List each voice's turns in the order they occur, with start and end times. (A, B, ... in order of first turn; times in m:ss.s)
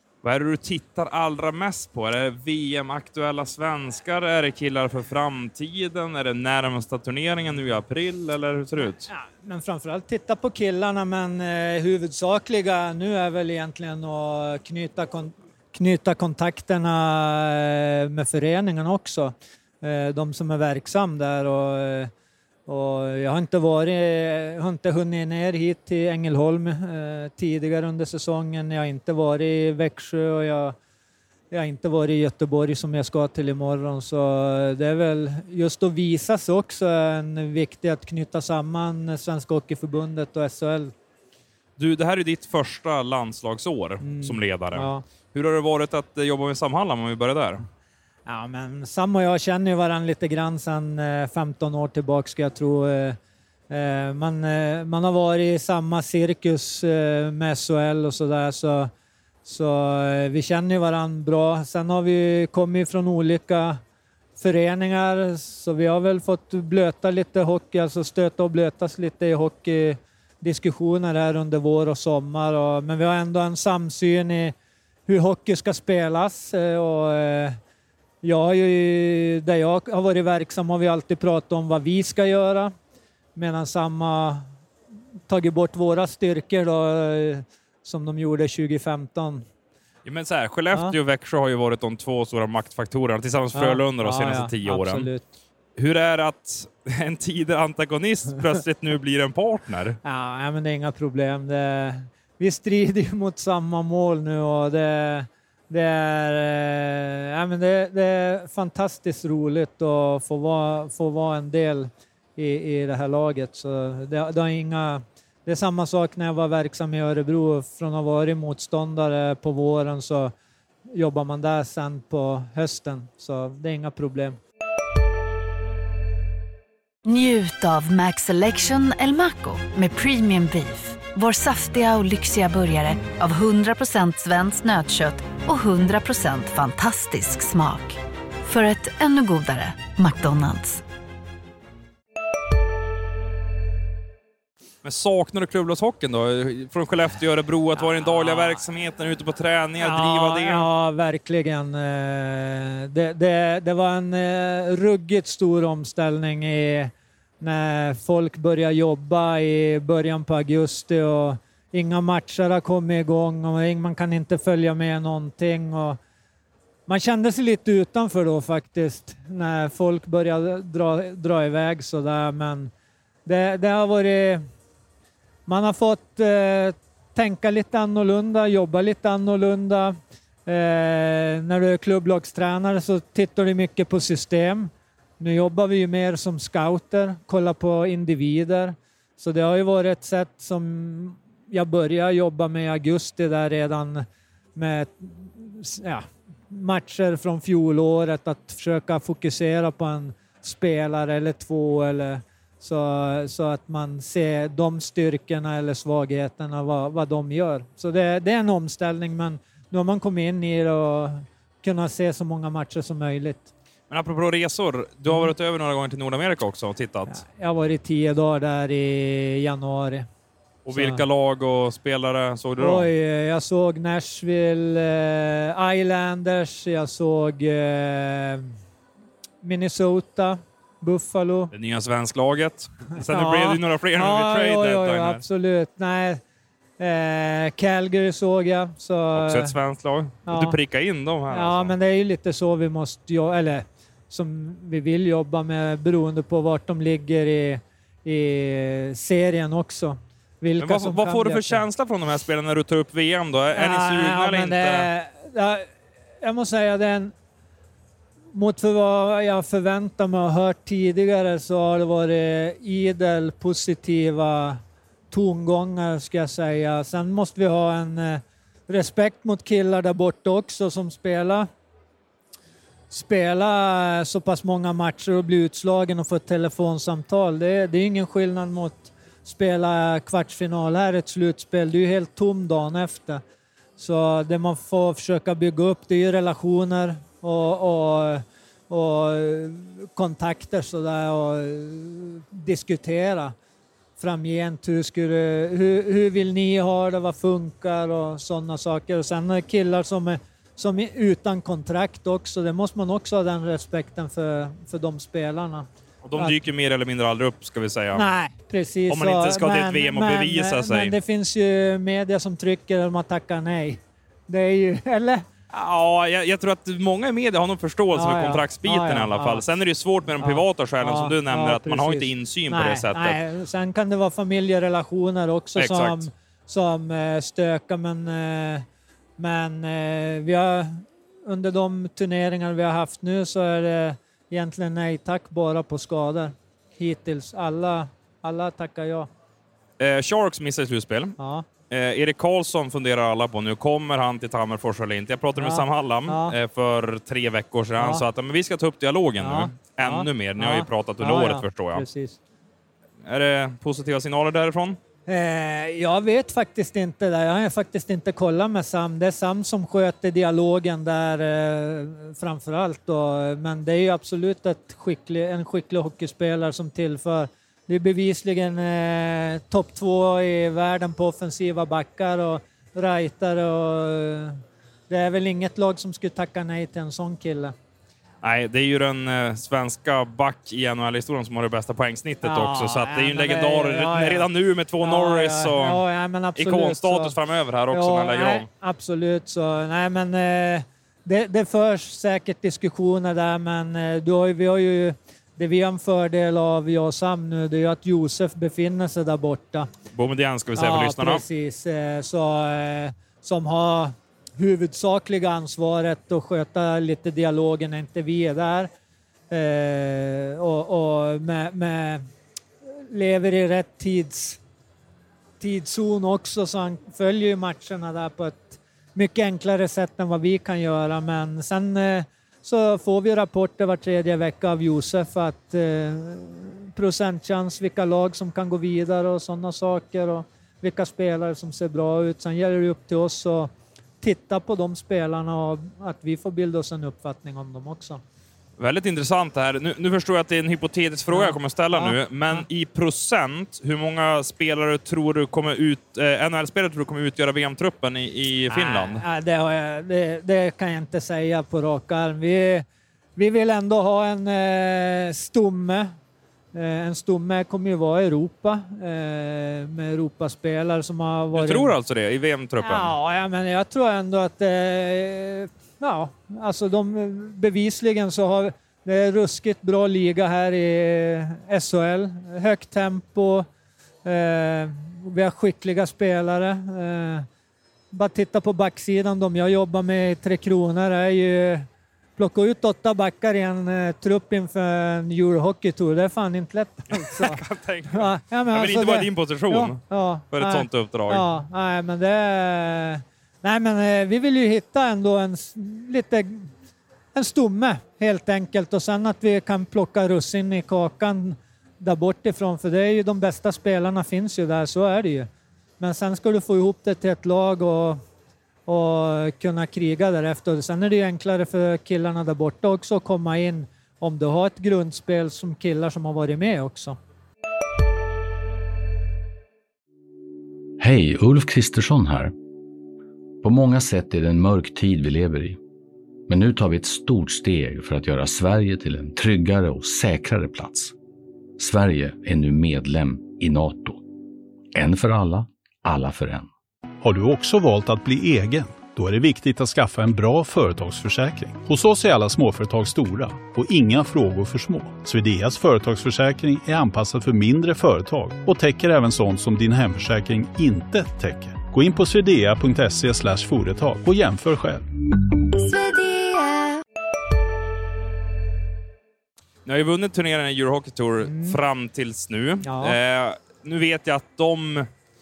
0:00.2-0:09.1 A
0:08.8-0:22.1 B
0:22.7-0:30.8 B
0:31.5-0:40.9 B
0:41.8-0:47.6 A
0:44.0-0:45.0 B
0:48.3-0:53.2 B
0:53.7-0:58.9 B
0:59.4-1:03.8 B
1:04.4-1:14.6 B
1:15.1-1:17.6 B
1:18.2-1:22.7 B
1:23.4-1:24.5 B
1:25.3-1:29.4 B
1:30.0-1:35.1 A
1:33.5-1:35.3 B
1:35.8-1:40.0 A
1:40.0-2:00.3 B
2:00.9-2:04.4 B
2:07.0-2:20.8 C
2:24.8-2:30.7 A
2:27.9-2:28.6 B
2:29.8-2:46.0 B
2:46.9-2:52.7 B
2:53.3-2:54.4 B
2:55.5-3:14.0 B
3:14.6-3:33.5 B
3:33.9-3:37.2 A
3:37.1-3:40.1 B
3:40.6-3:42.9 A
3:40.7-3:41.0 B
3:42.6-3:48.5 B
3:49.4-3:51.5 B
3:51.5-3:55.2 A
3:53.0-3:56.2 B
3:56.8-3:59.6 B
3:59.2-4:01.7 A
4:00.3-4:00.6 B
4:01.3-4:11.6 B
4:10.6-4:14.9 A
4:13.5-4:15.7 B
4:16.2-4:17.1 B
4:18.3-4:24.6 B
4:25.1-4:31.5 B
4:32.9-4:43.2 B
4:43.8-4:53.3 B
4:54.0-5:06.4 B
5:06.0-5:08.0 A
5:07.9-5:15.3 B
5:08.9-5:11.0 A
5:15.5-5:23.2 A
5:17.9-5:19.4 B
5:20.2-5:28.6 B
5:25.6-5:26.1 A
5:29.2-5:39.1 B
5:39.8-5:41.2 A
5:41.2-5:41.5 B
5:41.7-5:51.8 A
5:45.4-5:46.4 B
5:47.8-5:48.0 B
5:49.2-5:52.2 B
5:53.0-5:54.8 A
5:55.1-6:14.4 B
6:14.9-6:17.5 B
6:18.2-6:25.8 A
6:22.2-6:24.3 B
6:24.8-6:27.2 B
6:26.4-6:28.5 A
6:27.7-6:39.7 B
6:39.9-6:41.2 A
6:40.6-6:48.7 B
6:49.3-6:52.0 B
6:52.9-6:54.4 B
6:55.4-7:13.5 B
7:14.0-7:18.0 B
7:18.6-7:29.0 A
7:21.1-7:22.4 B
7:28.5-7:35.9 B
7:36.5-7:41.8 B
7:41.3-7:42.9 A
7:42.6-7:53.4 B
7:54.0-7:57.3 B
7:57.9-8:07.4 B
8:06.9-8:11.3 A
8:07.9-8:16.5 B
8:17.1-8:25.3 B
8:25.8-8:28.0 B
8:28.7-8:37.0 B
8:40.8-8:42.3 D
8:43.4-8:45.6 D
8:46.3-8:50.9 D
8:51.6-8:54.0 D
8:54.7-8:56.5 D
8:57.0-9:14.8 E
9:15.8-9:16.4 C
9:19.7-9:24.9 A
9:21.2-9:21.6 B
9:22.6-9:23.0 B